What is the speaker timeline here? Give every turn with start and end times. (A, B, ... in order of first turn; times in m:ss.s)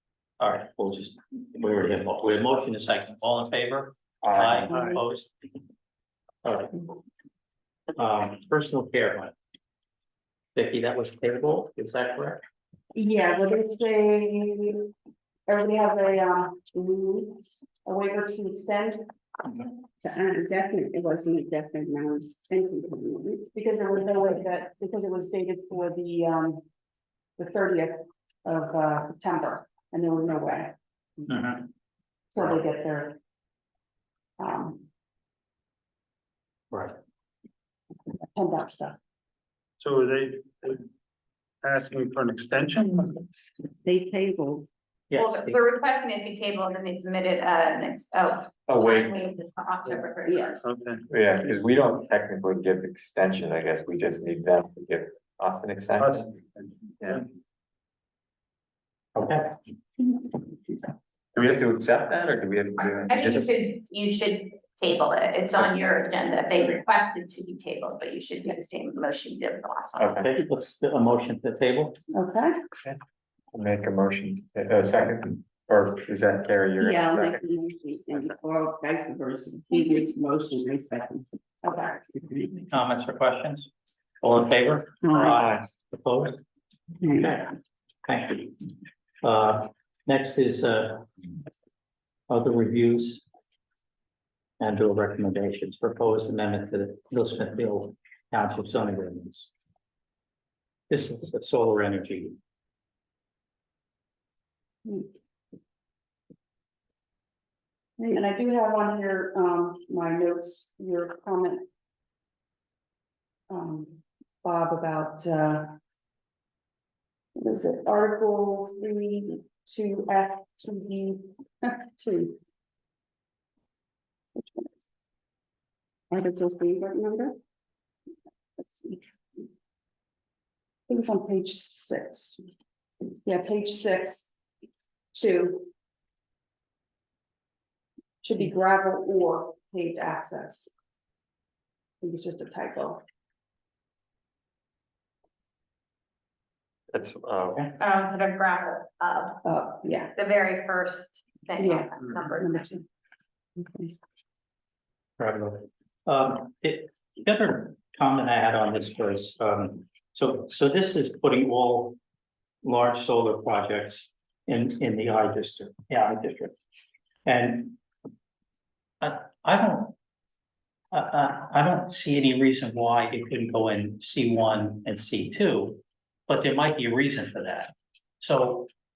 0:00.4-0:05.3 A
0:04.2-0:04.7 B
0:04.7-0:05.0 C
0:06.4-0:06.9 A
0:08.0-0:09.3 A
0:10.6-0:12.4 A
0:12.9-0:14.9 D
0:15.5-0:19.0 D
0:16.8-0:17.2 E
0:20.0-0:23.5 E
0:23.5-0:26.6 D
0:27.4-0:31.3 D
0:31.3-0:31.7 A
0:32.3-0:33.2 D
0:34.4-0:34.9 D
0:36.7-0:37.0 A
0:38.3-0:39.0 D
0:39.8-0:40.9 C
0:41.6-0:43.3 C
0:43.8-0:44.7 E
0:45.1-0:45.6 A
0:45.2-0:50.7 F
0:48.7-0:49.2 B
0:50.2-0:50.6 E
0:50.6-0:51.1 C
0:51.1-0:56.2 B
0:56.0-0:57.2 C
0:59.2-0:59.6 A
1:01.4-1:03.5 B
1:03.1-1:10.2 F
1:10.0-1:10.3 B
1:10.2-1:12.0 A
1:12.1-1:12.6 D
1:13.5-1:17.5 B
1:16.8-1:21.2 E
1:21.6-1:22.0 D
1:22.1-1:22.6 E
1:22.7-1:23.7 A
1:24.2-1:26.4 A
1:25.0-1:25.4 E
1:25.2-1:25.6 B
1:27.0-1:27.4 E
1:27.1-1:27.5 A
1:28.0-1:28.7 A
1:29.2-1:31.1 A
1:32.3-1:33.2 A
1:34.6-1:39.5 A
1:40.9-1:42.4 A
1:48.0-1:51.7 D
1:53.5-1:55.8 D
1:57.4-2:02.4 D
2:04.4-2:04.7 D
2:06.1-2:07.3 E
2:08.6-2:09.4 D
2:10.9-2:12.4 D
2:13.2-2:14.3 D
2:15.1-2:15.7 D
2:18.2-2:20.7 D
2:22.0-2:23.0 D
2:26.9-2:27.7 B
2:27.8-2:29.5 F
2:29.4-2:30.1 D
2:30.2-2:32.7 F
2:31.6-2:32.9 D
2:33.6-2:34.0 D
2:35.2-2:42.0 A
2:42.6-2:46.5 A
2:47.2-2:47.8 A
2:49.0-2:50.0 A
2:50.9-2:58.7 A